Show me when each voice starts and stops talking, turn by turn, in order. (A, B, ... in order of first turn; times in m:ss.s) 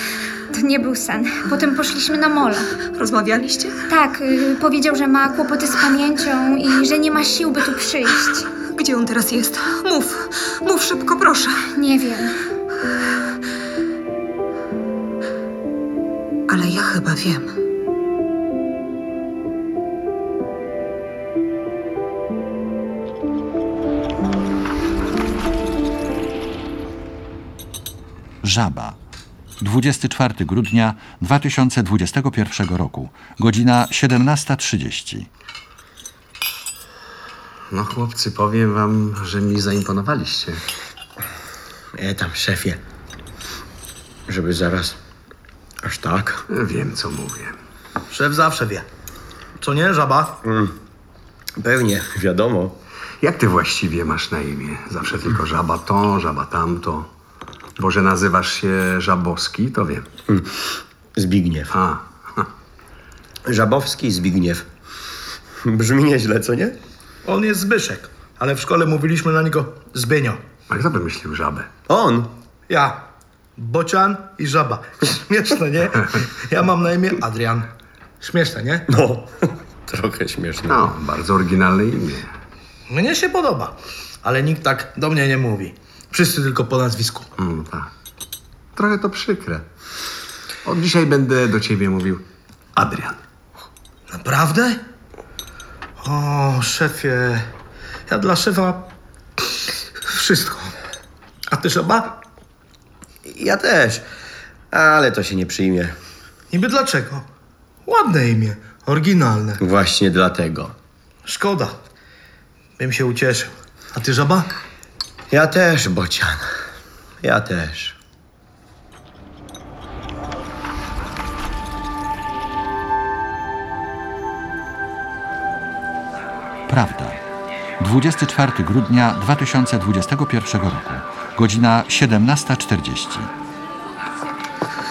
0:00.5-0:02.8 A
0:02.9-0:03.8 B
0:03.9-0:08.5 A
0:08.7-0:11.6 B
0:11.7-0:12.4 A
0:16.5-0:17.5 B
0:28.4-0:29.0 C
0:29.6-0:35.3 C
0:37.7-0:40.6 D
0:42.0-0:42.8 E
0:44.3-0:45.0 E
0:45.8-0:46.4 E
0:46.5-0:47.5 D
0:48.1-0:48.9 F
0:49.6-0:50.4 F
0:50.4-0:50.7 E
0:51.6-0:52.8 E
0:53.2-0:57.1 D
0:57.8-1:00.0 D
1:01.2-1:01.7 E
1:01.7-1:02.5 D
1:03.5-1:04.6 E
1:05.6-1:06.8 E
1:07.2-1:10.4 F
1:10.7-1:11.7 D
1:11.9-1:12.3 E
1:12.7-1:13.0 F
1:13.6-1:17.7 F
1:18.2-1:18.9 F
1:18.9-1:20.9 E
1:20.7-1:22.3 D
1:22.9-1:27.3 F
1:27.4-1:27.9 D
1:28.8-1:29.6 D
1:30.6-1:32.2 D
1:32.8-1:33.2 D
1:34.1-1:34.8 F
1:36.0-1:37.5 F
1:38.1-1:38.9 F
1:40.0-1:40.8 F
1:41.5-1:42.2 F
1:43.2-1:44.0 E
1:44.7-1:45.9 E
1:46.5-1:47.2 F
1:47.9-1:49.6 F
1:49.6-1:50.8 E
1:51.2-1:51.8 F
1:52.8-1:54.5 F
1:55.3-1:56.4 E
1:57.2-1:58.0 E
2:06.7-2:07.2 C
2:07.8-2:13.3 C